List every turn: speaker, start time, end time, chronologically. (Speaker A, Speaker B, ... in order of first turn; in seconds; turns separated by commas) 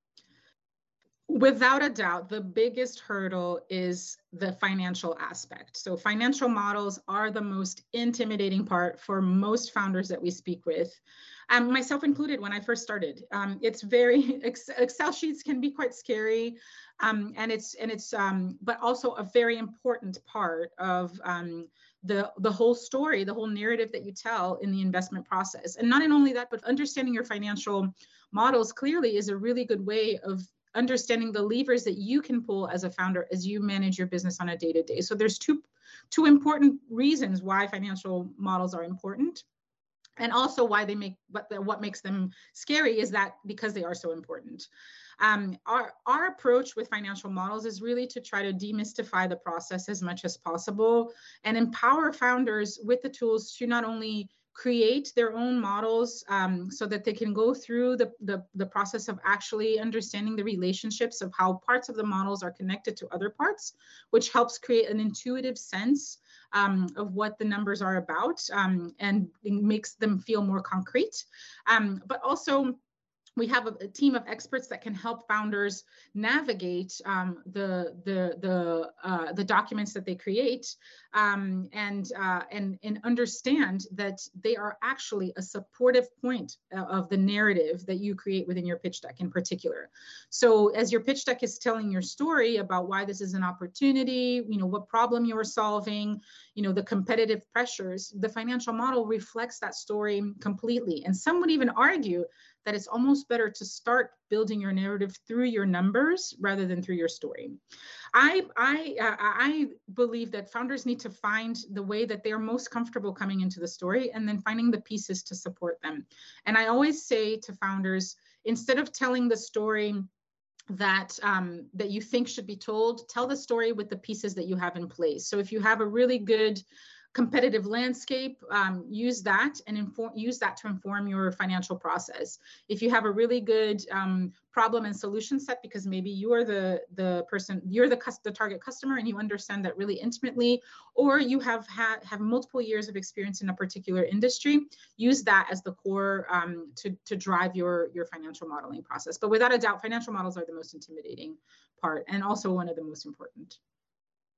Speaker A: 1.3-39.4, Speaker A: 40.2-44.7, Speaker A: 45.2-72.8, Speaker A: 73.4-107.6, Speaker A: 108.1-120.1, Speaker A: 120.7-153.6